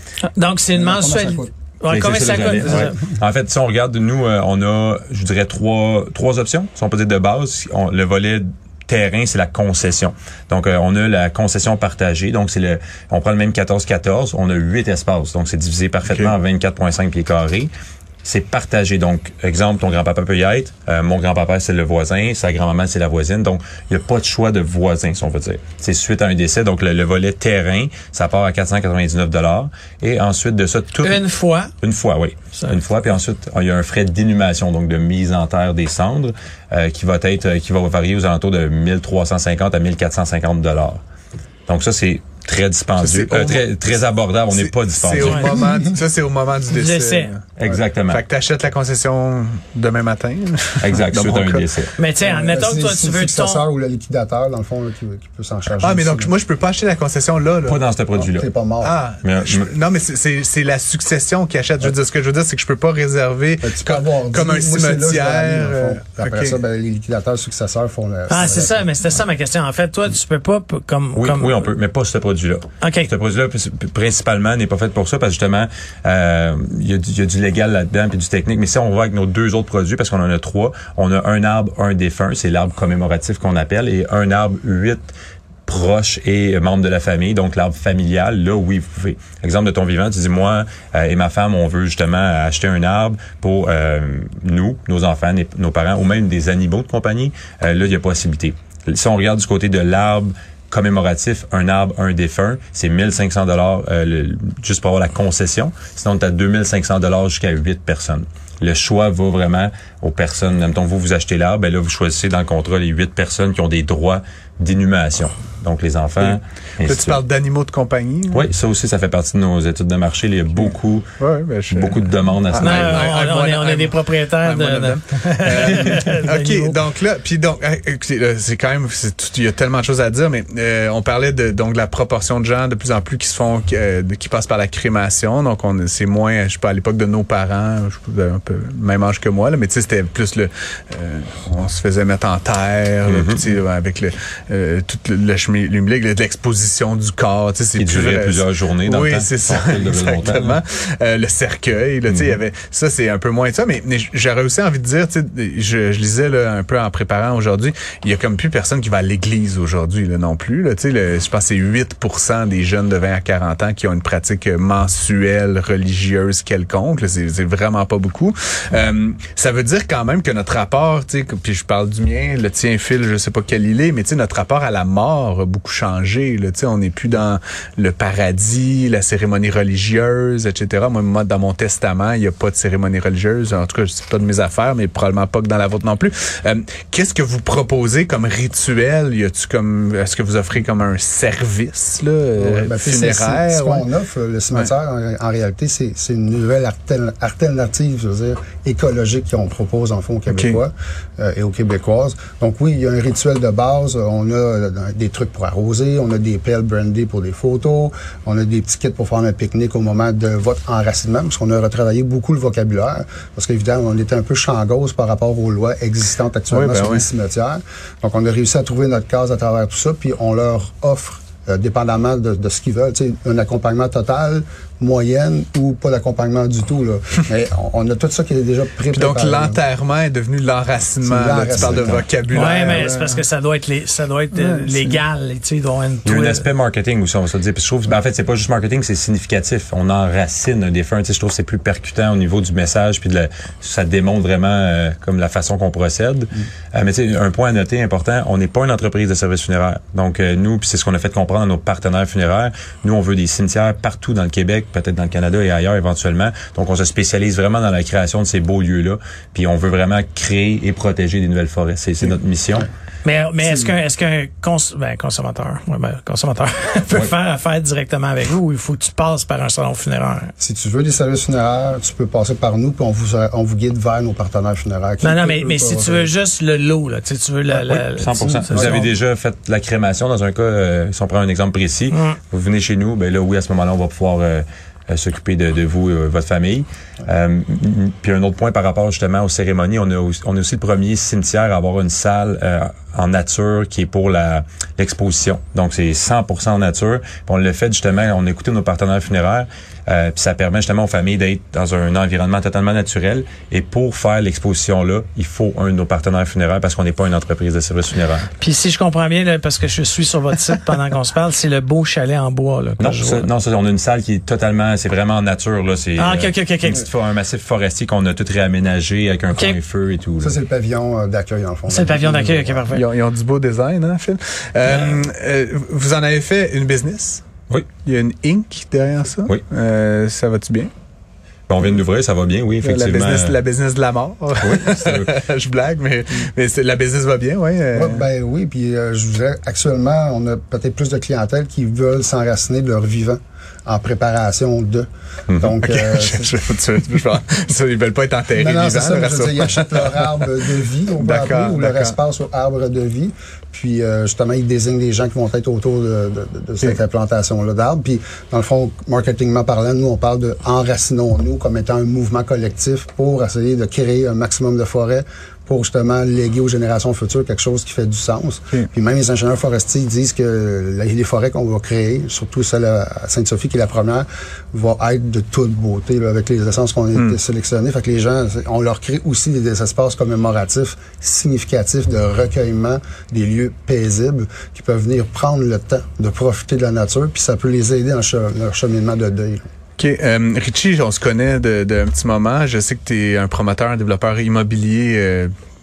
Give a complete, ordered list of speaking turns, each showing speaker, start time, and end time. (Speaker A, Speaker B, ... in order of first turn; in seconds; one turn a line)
Speaker A: 0.4-3.0
Speaker B: 0.8-1.5
Speaker C: 1.9-17.7
Speaker D: 16.1-16.3
Speaker C: 18.2-31.2
Speaker A: 31.0-31.7
Speaker C: 31.8-41.0
Speaker C: 41.7-45.7
Speaker D: 43.0-43.7
Speaker D: 44.5-51.7
Speaker A: 45.2-45.5
Speaker A: 46.7-47.3
Speaker C: 47.6-48.2
Speaker C: 50.8-51.9
Speaker A: 52.0-53.6
Speaker B: 52.2-56.3
Speaker D: 55.8-57.8
Speaker C: 57.6-58.5
Speaker B: 58.1-59.0
Speaker D: 58.8-66.6
Speaker C: 59.2-59.7
Speaker B: 63.6-68.8
Speaker A: 68.3-71.7
Speaker C: 71.2-85.1
Speaker A: 72.8-73.1
Speaker C: 85.7-117.2
Speaker D: 116.2-118.4
Speaker C: 118.3-121.1
Speaker D: 121.2-193.9
Speaker C: 121.7-123.2
Speaker A: 122.6-126.8
Speaker C: 143.1-143.6
Speaker C: 147.8-150.6
Speaker C: 152.1-152.4
Speaker B: 192.4-229.6
Speaker D: 200.3-200.6
Speaker D: 216.5-217.1
Speaker D: 228.9-233.2
Speaker B: 231.0-232.1
Speaker C: 231.6-232.0
Speaker A: 232.3-236.4
Speaker D: 234.3-235.0
Speaker C: 236.1-262.7
Speaker A: 263.0-270.3
Speaker B: 270.4-276.1
Speaker A: 275.0-278.9
Speaker C: 277.7-308.3
Speaker A: 281.9-282.2
Speaker A: 308.4-313.3
Speaker C: 312.8-320.4
Speaker A: 316.0-316.9
Speaker B: 320.2-322.6
Speaker A: 321.7-322.9
Speaker D: 322.7-327.2
Speaker D: 327.8-330.7
Speaker C: 331.5-333.4
Speaker D: 332.6-338.1
Speaker C: 334.4-335.1
Speaker B: 337.7-346.4
Speaker D: 345.6-350.3
Speaker B: 348.4-389.4
Speaker D: 351.0-351.9
Speaker D: 389.8-395.3